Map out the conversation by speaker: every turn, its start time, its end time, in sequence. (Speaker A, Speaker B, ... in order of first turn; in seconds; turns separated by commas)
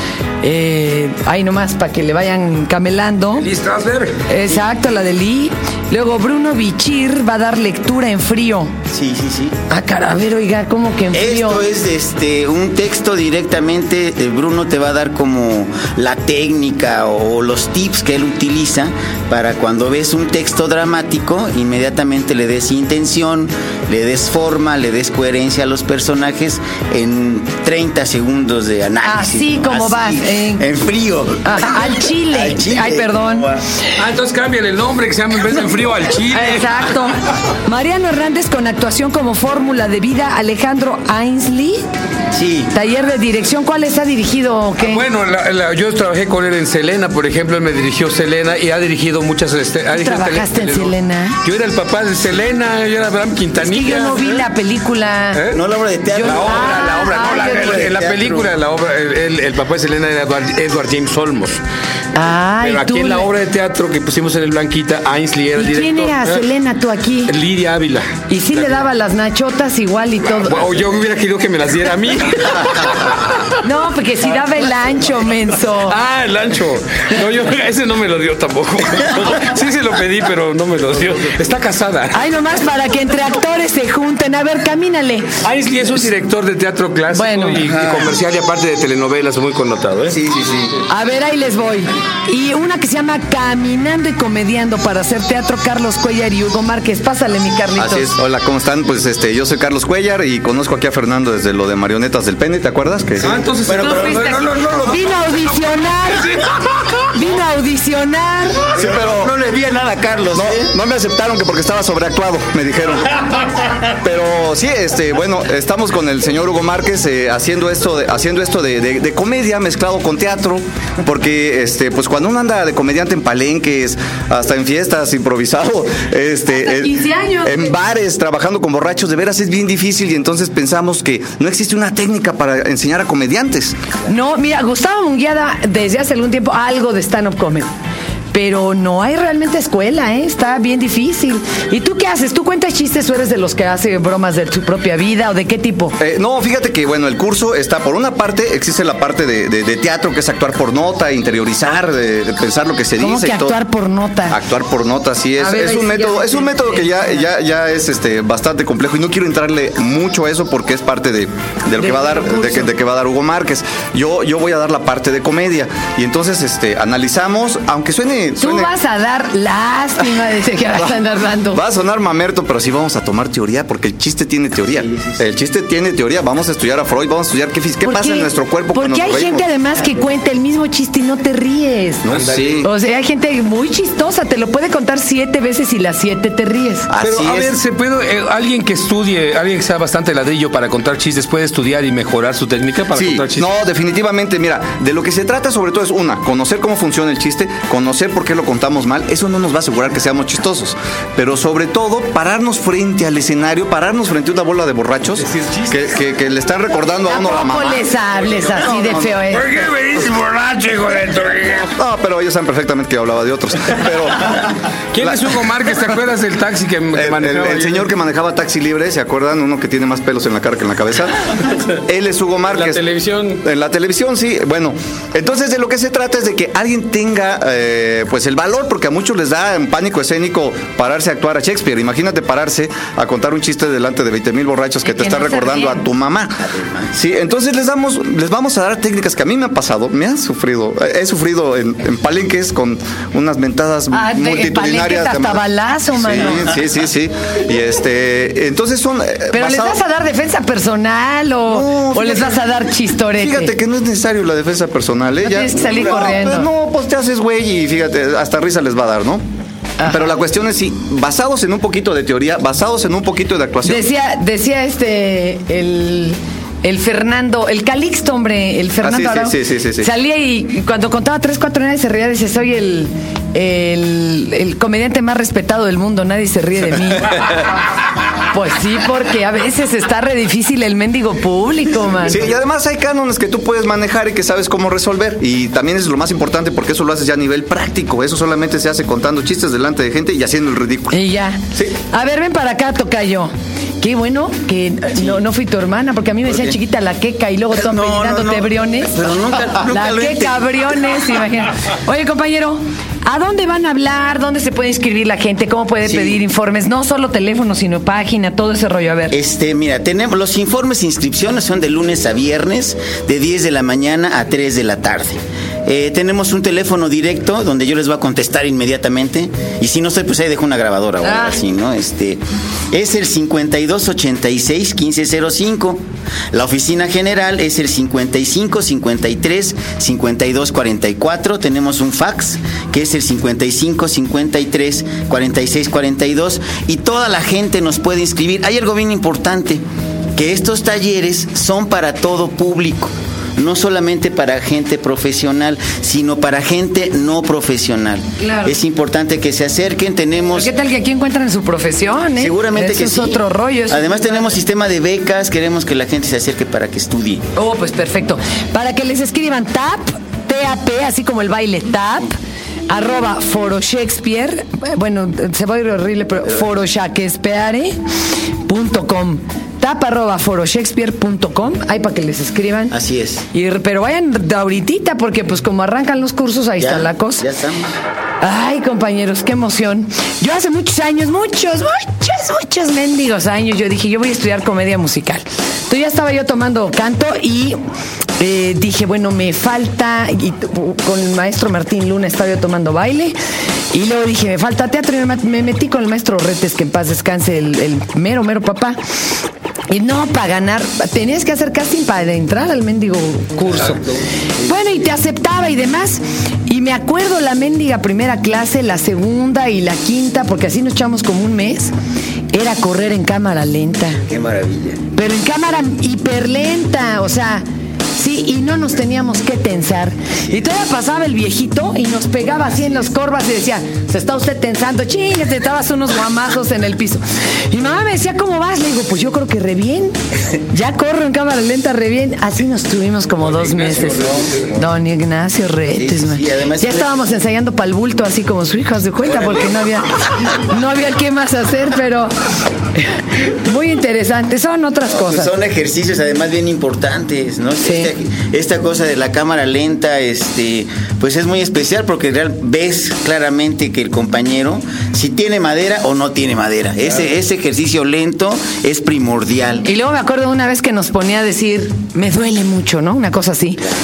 Speaker A: 0.4-3.5, Speaker B: 3.4-4.2, Speaker A: 4.2-8.7, Speaker C: 8.9-9.5, Speaker A: 9.7-11.7, Speaker C: 11.1-33.6, Speaker A: 29.0-30.7, Speaker A: 31.4-33.5, Speaker B: 34.0-36.7, Speaker A: 36.3-41.8, Speaker C: 42.3-42.7, Speaker A: 42.7-45.0, Speaker B: 44.8-54.4, Speaker A: 49.9-51.4, Speaker A: 53.6-55.4, Speaker B: 55.3-55.6, Speaker C: 55.5-58.5, Speaker A: 56.1-57.9, Speaker B: 56.2-61.6, Speaker A: 62.1-63.3, Speaker B: 62.6-66.4, Speaker A: 65.5-67.3, Speaker B: 67.3-68.7, Speaker A: 68.3-70.7, Speaker B: 70.4-73.5, Speaker A: 73.6-76.0, Speaker B: 75.9-82.3, Speaker A: 82.1-85.3, Speaker B: 85.4-90.2, Speaker A: 87.1-87.6, Speaker C: 87.8-88.1, Speaker C: 90.1-90.7, Speaker A: 90.9-98.1, Speaker D: 97.8-103.4, Speaker B: 103.2-107.0, Speaker C: 103.7-104.2, Speaker A: 103.8-106.3, Speaker A: 107.1-108.7, Speaker D: 108.8-109.3, Speaker C: 108.8-110.7, Speaker D: 110.3-113.2, Speaker D: 114.0-133.8, Speaker A: 126.6-127.7, Speaker A: 134.1-137.7, Speaker A: 138.3-145.9, Speaker D: 146.0-153.6, Speaker A: 153.0-154.4, Speaker D: 154.3-168.7, Speaker A: 155.4-157.3, Speaker A: 161.8-162.7, Speaker A: 168.4-171.6, Speaker D: 171.5-179.5, Speaker C: 174.7-175.2, Speaker A: 177.8-182.0, Speaker D: 182.0-182.7, Speaker B: 182.1-182.7, Speaker A: 182.6-186.9, Speaker D: 186.9-187.6, Speaker B: 187.0-193.5, Speaker D: 192.9-207.8, Speaker B: 205.2-206.0, Speaker A: 207.1-209.5, Speaker D: 208.4-209.2, Speaker B: 209.3-211.7, Speaker D: 211.8-215.3, Speaker B: 214.3-217.9, Speaker D: 216.9-222.8, Speaker B: 222.5-223.4, Speaker D: 223.4-236.4, Speaker A: 234.8-235.8, Speaker C: 236.4-236.9, Speaker D: 236.9-245.4, Speaker A: 243.9-246.5, Speaker D: 245.9-249.8, Speaker A: 249.3-253.5, Speaker D: 251.5-252.4, Speaker D: 253.2-259.2, Speaker A: 255.2-256.5, Speaker A: 259.8-260.1, Speaker D: 259.8-263.8, Speaker A: 263.6-277.3, Speaker D: 268.8-269.9, Speaker A: 278.3-282.2, Speaker D: 282.0-291.0, Speaker A: 290.9-309.2, Speaker C: 294.9-295.2, Speaker C: 296.2-296.6, Speaker C: 297.5-300.7, Speaker C: 305.8-306.2, Speaker C: 309.1-325.8, Speaker A: 321.0-321.4, Speaker C: 326.3-339.6, Speaker C: 340.1-350.5, Speaker A: 348.2-348.5, Speaker A: 350.3-354.3, Speaker C: 352.2-357.2, Speaker A: 357.4-362.1, Speaker A: 362.7-367.8, Speaker A: 368.4-372.7, Speaker C: 372.7-373.2, Speaker A: 373.3-377.3, Speaker C: 376.6-377.7, Speaker A: 378.2-387.6, Speaker A: 388.2-393.1, Speaker A: 393.7-398.8, Speaker A: 399.7-403.9, Speaker B: 403.5-403.8, Speaker A: 404.4-411.7, Speaker C: 404.5-404.8, Speaker A: 412.3-414.0, Speaker C: 414.0-414.8, Speaker A: 414.9-417.4, Speaker A: 417.9-442.1, Speaker B: 433.2-434.6, Speaker C: 435.7-437.0, Speaker A: 442.7-445.3, Speaker C: 444.9-459.7, Speaker A: 447.6-447.9, Speaker A: 459.6-463.7